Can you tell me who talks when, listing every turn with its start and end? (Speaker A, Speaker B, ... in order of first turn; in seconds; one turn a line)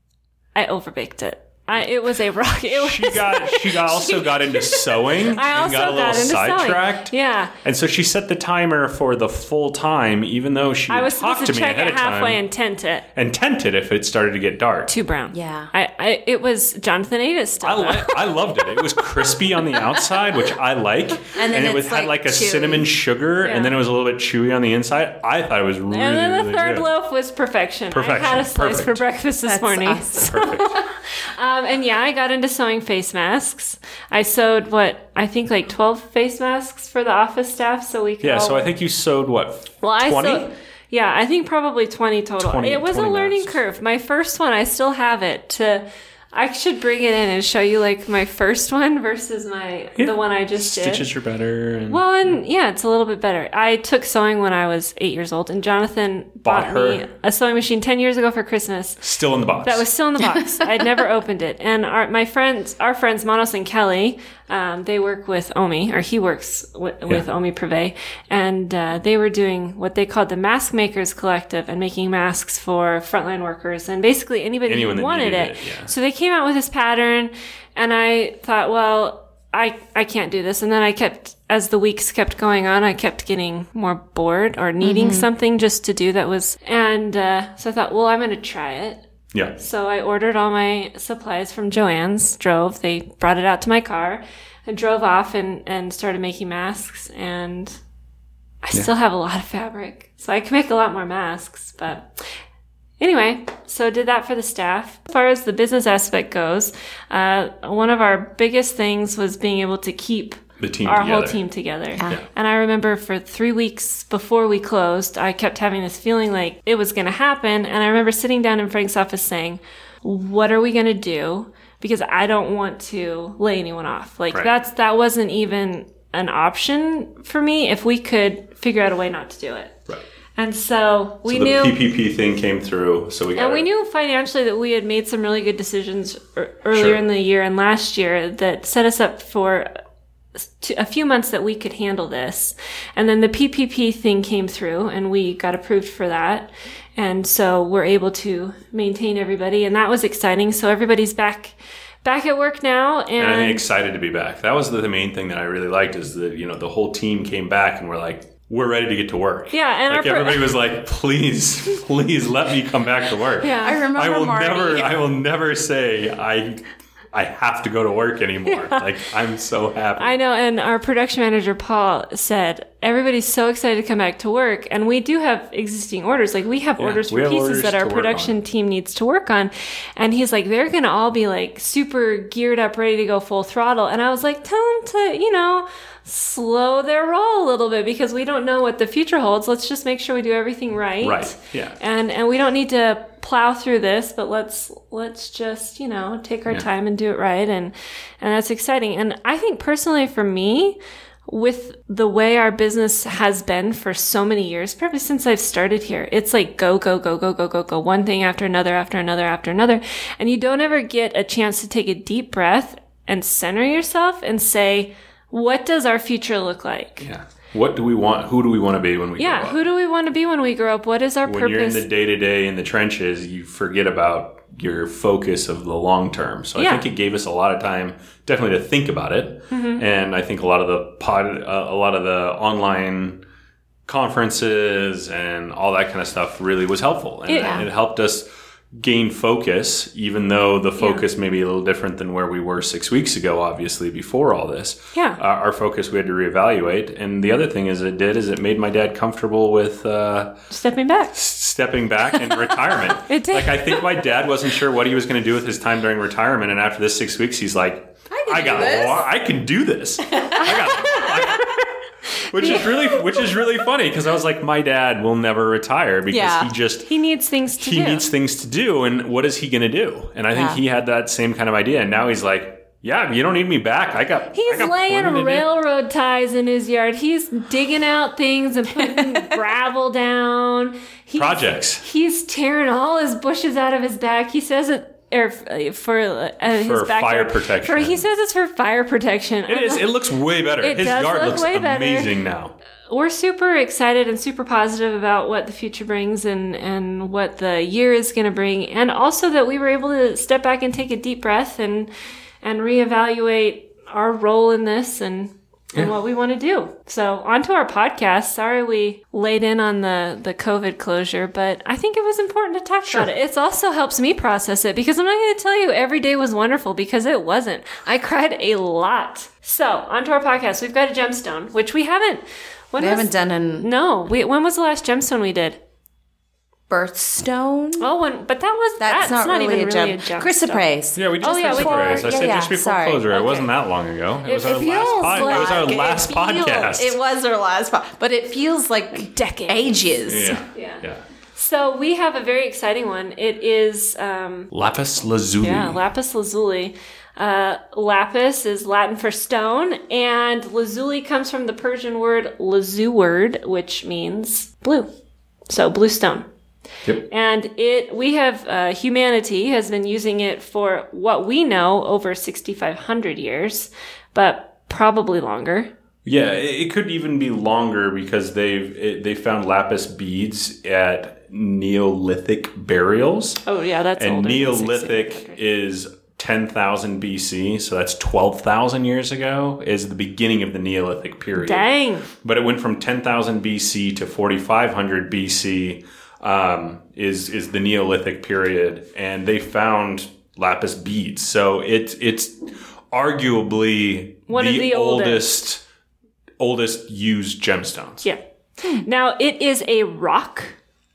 Speaker A: 0.6-7.5
Speaker B: 2.7-12.4
Speaker A: 10.9-13.1
Speaker B: 13.2-14.9
Speaker A: 14.9-18.2
Speaker C: 15.3-15.7
Speaker B: 17.6-26.9
Speaker A: 18.7-19.0
Speaker C: 21.3-22.9
Speaker A: 23.4-23.7
Speaker A: 25.9-38.7
Speaker B: 27.9-29.0
Speaker C: 29.4-30.6
Speaker B: 30.2-30.8
Speaker B: 38.2-40.5
Speaker A: 39.8-51.1
Speaker B: 42.4-43.6
Speaker B: 50.0-52.4
Speaker A: 51.9-59.0
Speaker B: 56.5-57.0
Speaker B: 59.0-59.9
Speaker A: 59.6-97.8
Speaker B: 74.7-75.9
Speaker C: 84.8-85.3
Speaker A: 98.6-102.4
Speaker A: 103.0-129.8
Speaker B: 110.6-111.4
Speaker A: 130.4-131.8
Speaker B: 131.3-133.7
Speaker A: 133.4-139.7
Speaker B: 136.7-137.0
Speaker A: 140.6-153.6
Speaker B: 153.2-170.2
Speaker A: 159.5-160.5
Speaker A: 163.4-163.9
Speaker C: 163.6-164.9
Speaker A: 168.5-168.8
Speaker A: 170.0-217.1
Speaker B: 176.8-178.4
Speaker B: 191.0-191.8
Speaker B: 217.0-219.6
Speaker A: 219.2-221.9
Speaker B: 221.2-233.2
Speaker A: 226.6-226.8
Speaker A: 229.5-229.8
Speaker B: 233.9-250.4
Speaker A: 237.3-237.7
Speaker C: 237.4-237.7
Speaker A: 240.8-241.1
Speaker A: 250.5-251.2
Speaker B: 251.1-261.7
Speaker A: 253.0-253.8
Speaker C: 258.1-259.0
Speaker C: 260.1-260.5
Speaker A: 260.3-261.2
Speaker B: 262.3-266.9
Speaker A: 262.4-263.2
Speaker C: 266.1-266.5
Speaker A: 266.9-268.1
Speaker B: 267.6-275.5
Speaker C: 270.3-270.6
Speaker A: 274.3-289.9
Speaker C: 278.8-279.3
Speaker B: 281.2-281.8
Speaker B: 286.5-288.1
Speaker B: 289.5-292.5
Speaker A: 290.6-292.1
Speaker A: 292.9-301.9
Speaker A: 302.4-325.6
Speaker C: 322.8-323.7
Speaker C: 326.7-327.9
Speaker A: 327.8-330.7
Speaker C: 328.8-333.1
Speaker B: 331.0-337.0
Speaker A: 331.2-332.5
Speaker A: 333.1-333.5
Speaker A: 334.2-336.8
Speaker C: 335.1-335.7
Speaker C: 336.7-340.4
Speaker A: 338.9-340.8
Speaker B: 340.1-341.0
Speaker A: 341.4-344.5
Speaker B: 344.5-345.8
Speaker A: 345.4-354.9
Speaker A: 355.5-356.3
Speaker A: 357.1-365.7
Speaker B: 366.1-373.4
Speaker A: 373.4-375.4
Speaker B: 374.0-392.4
Speaker A: 381.4-382.1
Speaker B: 392.9-395.6
Speaker A: 394.3-395.2
Speaker B: 396.4-398.1
Speaker A: 398.0-400.6